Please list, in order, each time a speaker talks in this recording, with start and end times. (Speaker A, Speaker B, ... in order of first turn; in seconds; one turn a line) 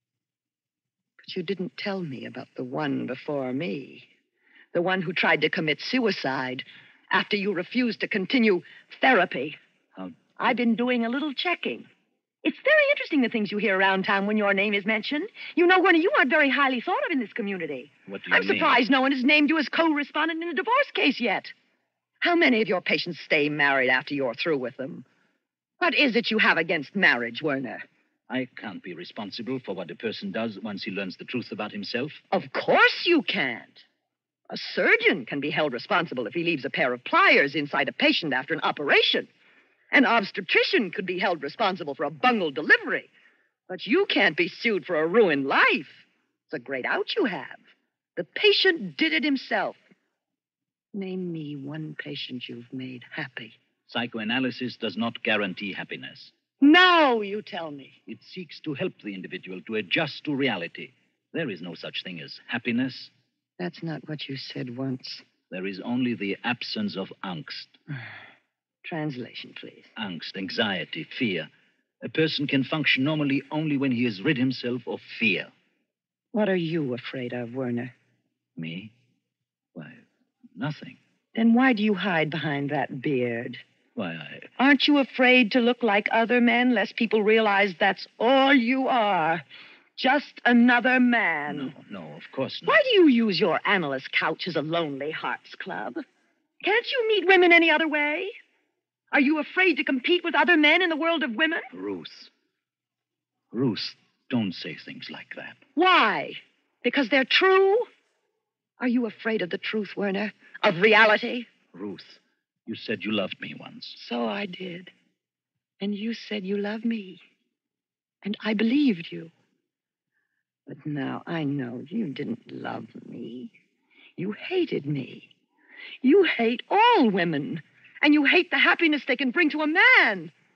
Speaker A: 1.2-4.1
Speaker A: 4.7-9.6
Speaker A: 10.4-11.9
Speaker A: 12.4-21.5
Speaker B: 18.1-18.8
Speaker A: 22.2-25.0
Speaker A: 25.8-27.8
Speaker B: 28.3-32.2
Speaker A: 32.3-33.8
Speaker A: 34.5-39.3
Speaker A: 39.9-43.1
Speaker A: 43.7-47.6
Speaker A: 48.1-49.8
Speaker A: 50.9-53.5
Speaker B: 53.9-56.3
Speaker A: 56.6-58.0
Speaker B: 58.0-63.1
Speaker A: 63.6-65.2
Speaker B: 65.5-67.8
Speaker A: 68.8-69.9
Speaker B: 70.0-71.5
Speaker B: 72.0-75.5
Speaker A: 76.3-77.9
Speaker B: 78.5-78.9
Speaker B: 79.7-80.0
Speaker B: 80.5-81.0
Speaker A: 81.3-83.6
Speaker B: 84.0-84.5
Speaker A: 84.6-89.4
Speaker A: 90.0-91.7
Speaker B: 91.5-92.8
Speaker A: 92.7-96.0
Speaker A: 96.6-98.3
Speaker A: 99.1-101.7
Speaker B: 101.7-102.3
Speaker B: 103.5-105.6
Speaker A: 105.8-107.9
Speaker A: 108.8-111.5
Speaker B: 111.7-114.0
Speaker A: 113.9-114.9
Speaker A: 115.8-117.2
Speaker A: 118.2-119.3
Speaker A: 120.7-123.5
Speaker A: 124.2-125.3
Speaker A: 126.0-130.3